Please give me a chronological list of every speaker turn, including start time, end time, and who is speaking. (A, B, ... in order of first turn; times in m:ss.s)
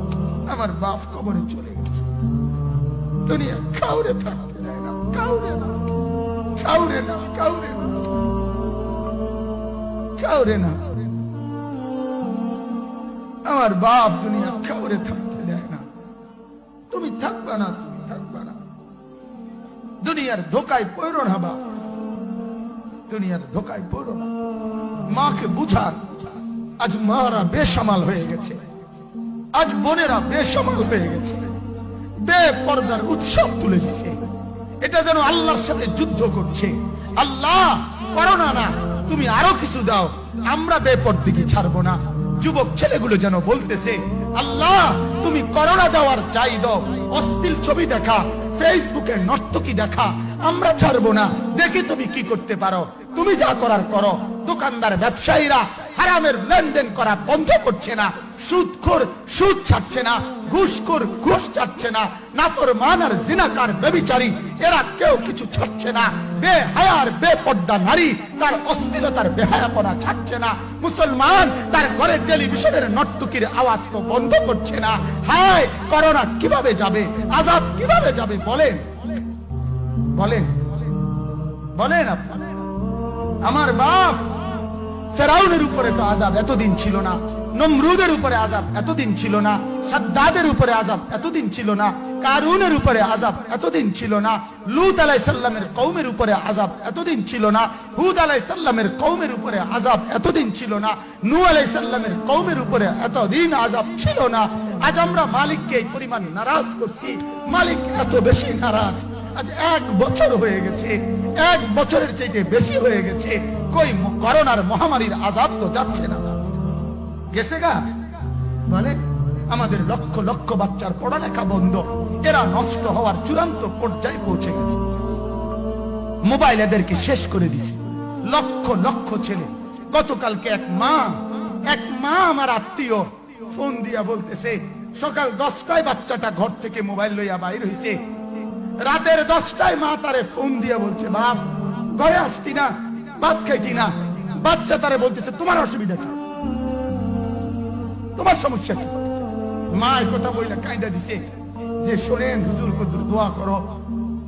0:00.5-0:02.2 A
0:03.2-0:05.9 A
0:06.6-0:08.3 A
0:10.2-0:11.0 A
0:13.4-0:15.8 A
0:16.9-0:18.6 A
0:20.0-0:21.6 A
0:23.1-0:24.3 A
0:25.1-0:28.6 A
0:29.6-0:31.6 A
0:32.2-0:34.3 A
0:34.8-1:19.2 A
1:20.2-1:20.7 A
1:21.8-1:22.4 A
1:23.4-1:24.3 A
1:25.1-1:56.4 A
1:57.3-1:57.9 A
1:58.7-2:04.8 A
2:06.2-2:18.0 A
2:18.8-2:26.2 A
2:28.2-2:33.8 A